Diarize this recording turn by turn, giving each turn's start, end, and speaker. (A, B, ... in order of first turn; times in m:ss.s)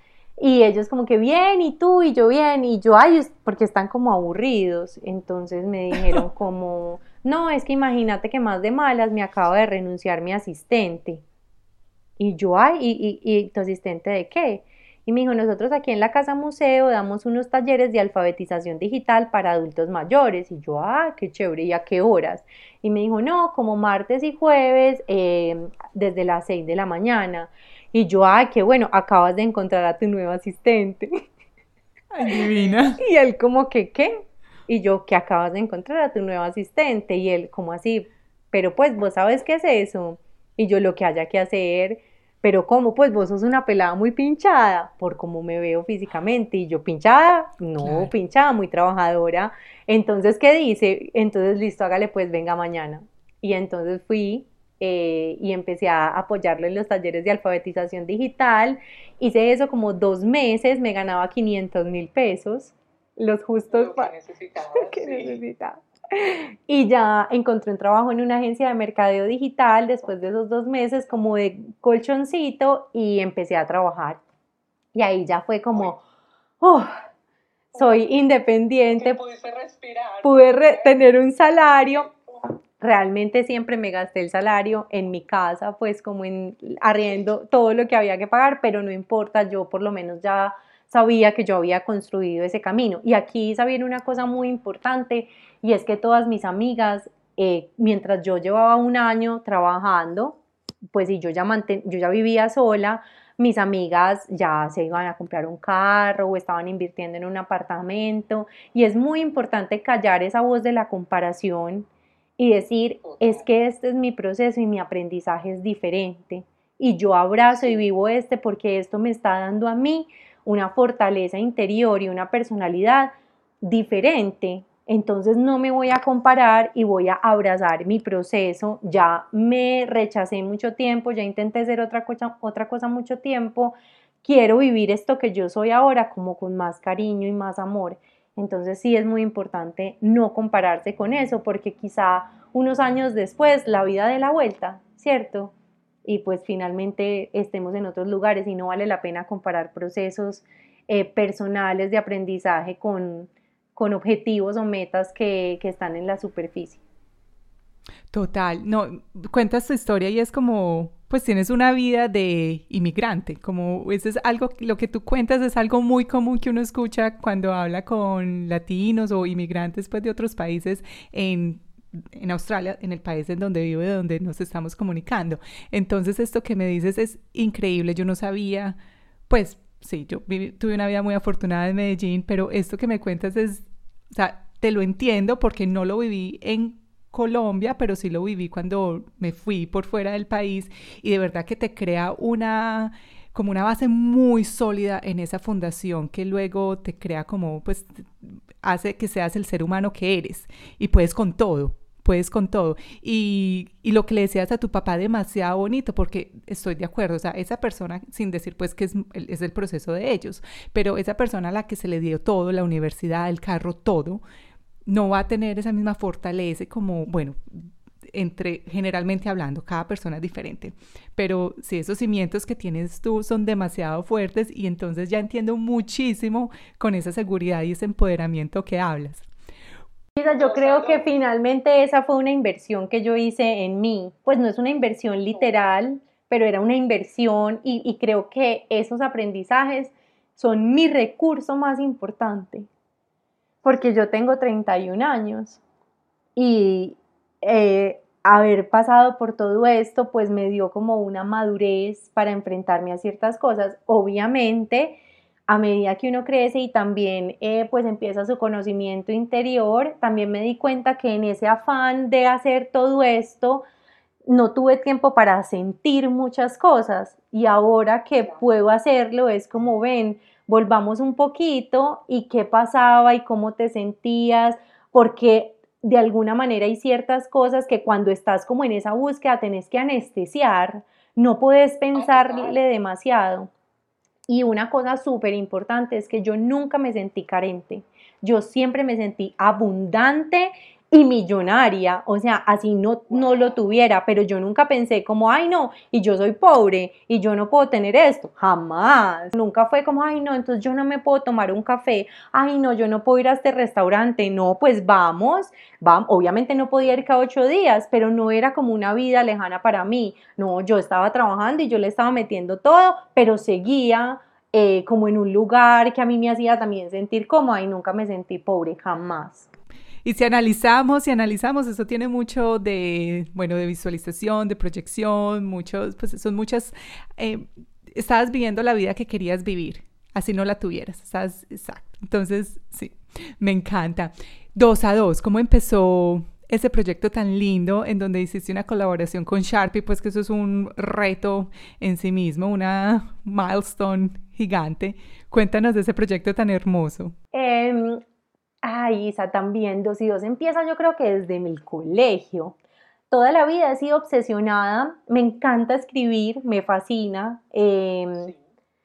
0:00.4-0:11.2 A
0:12.2-0:31.1 A
0:32.1-0:33.0 B
0:33.0-1:04.1 A
0:47.8-0:48.1 B
1:03.7-1:05.4 C
1:04.8-1:14.2 A
1:15.0-1:16.0 A
1:16.6-1:17.0 A
1:17.7-1:19.2 A
1:19.0-1:21.0 C
1:20.2-1:22.1 A
1:22.1-1:22.4 C
1:22.8-2:03.1 A
1:53.0-1:53.4 C
2:03.6-2:25.5 A
2:26.1-2:36.8 A
2:38.1-2:58.8 B
2:59.3-3:34.2 B
3:34.9-3:49.3 B
3:50.2-4:02.7 A
3:50.3-3:51.1 C
4:03.6-4:05.6 A
4:06.4-4:15.0 A
4:15.5-4:23.6 A
4:24.3-4:43.5 A
4:42.0-4:42.6 C
4:44.3-5:19.5 A
5:20.0-5:47.2 B
5:47.3-5:48.0 A
5:48.6-5:52.6 A
5:53.1-5:58.3 A